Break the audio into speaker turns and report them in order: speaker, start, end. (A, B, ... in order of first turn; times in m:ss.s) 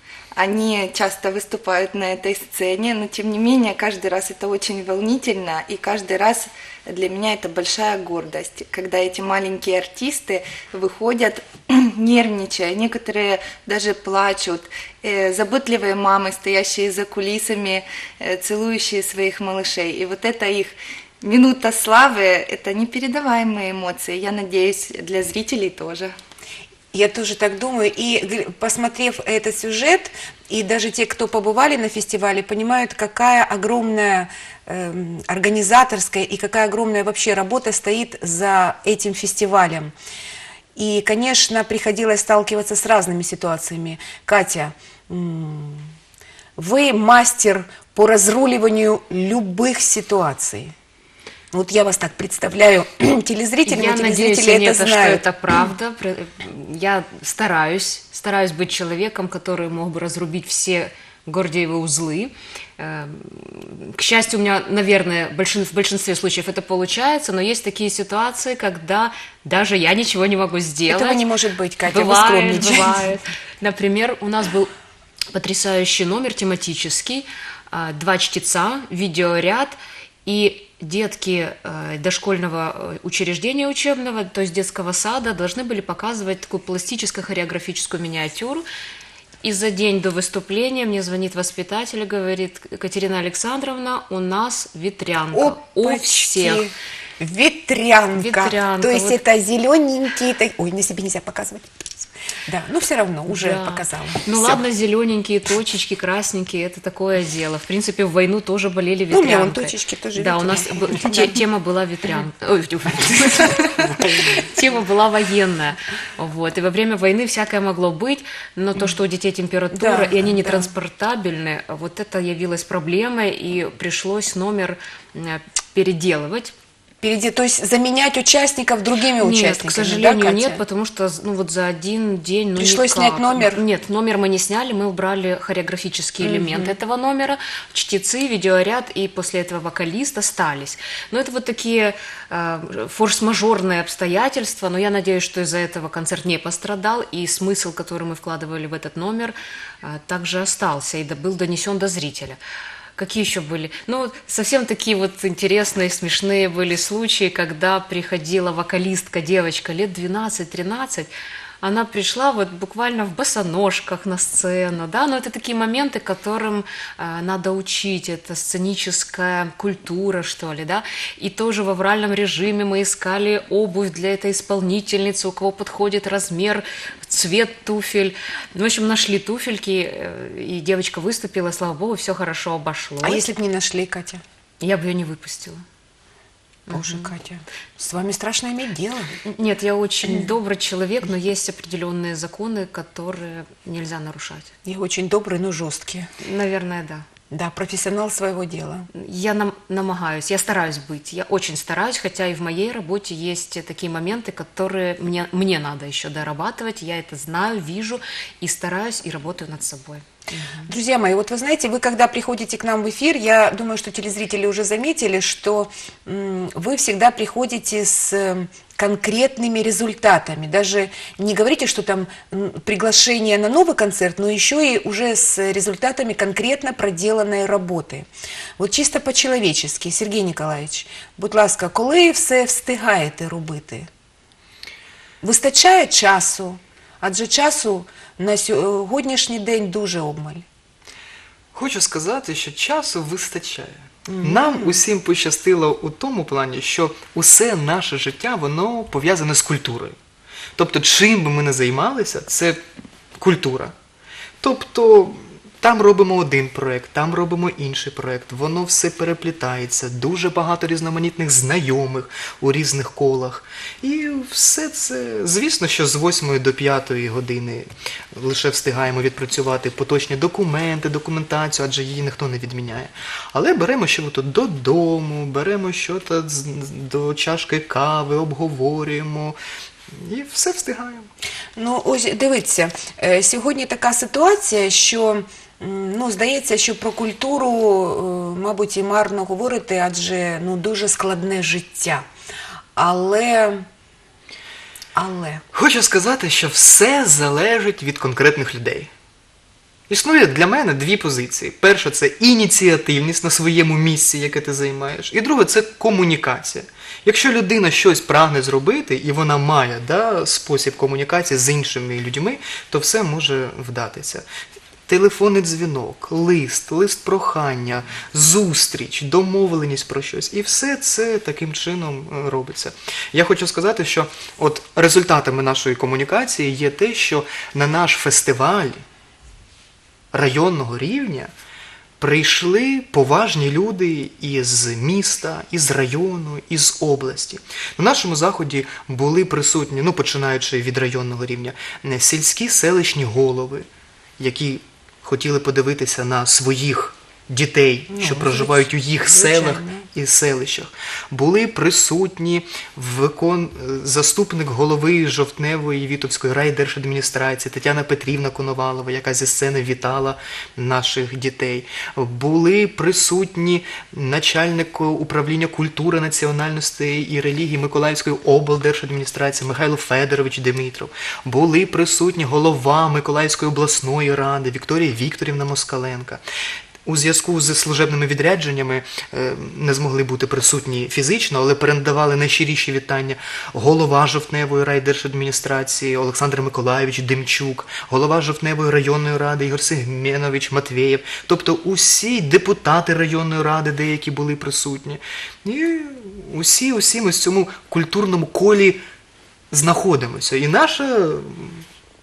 0:00.4-0:26.1 A
0:26.9-0:39.9 B
0:40.8-0:45.9 B
0:46.6-0:50.7 B
0:51.5-0:55.2 B
0:53.6-1:11.2 C
1:10.9-1:13.0 B
1:11.8-1:14.7 C
1:15.3-1:28.6 C
1:29.4-1:36.6 C
1:35.3-1:44.6 B
1:38.1-1:39.2 C
1:43.3-2:06.5 C
1:49.1-1:51.4 B
1:54.0-1:54.4 D
1:59.7-2:00.7 B
2:07.0-2:10.6 B
2:09.2-2:32.4 C
2:12.5-2:13.6 B
2:16.2-2:16.7 B
2:33.0-2:41.1 C
2:41.6-3:03.2 C
3:03.0-3:04.2 B
3:04.6-3:05.6 C
3:06.7-3:07.1 C
3:06.7-3:09.2 B
3:09.2-3:14.5 C
3:10.0-3:10.3 B
3:14.6-3:16.1 B
3:16.2-3:17.0 C
3:17.3-3:18.9 B
3:18.9-3:30.7 C
3:30.6-3:53.9 B
3:55.2-4:00.4 B
4:01.5-4:10.0 D
4:04.1-4:04.8 B
4:10.6-4:12.6 D
4:13.2-4:13.7 D
4:14.4-4:39.4 D
4:39.9-4:41.1 D
4:41.6-4:52.0 B
4:52.8-4:53.7 B
4:54.9-4:55.4 B
4:55.5-4:58.9 D
4:59.9-5:14.2 D
5:14.9-5:28.8 D
5:30.1-5:31.3 D
5:32.0-5:43.6 D
5:44.2-6:16.2 D
5:47.9-5:49.9 B
6:16.8-6:38.8 D
6:39.5-6:41.6 D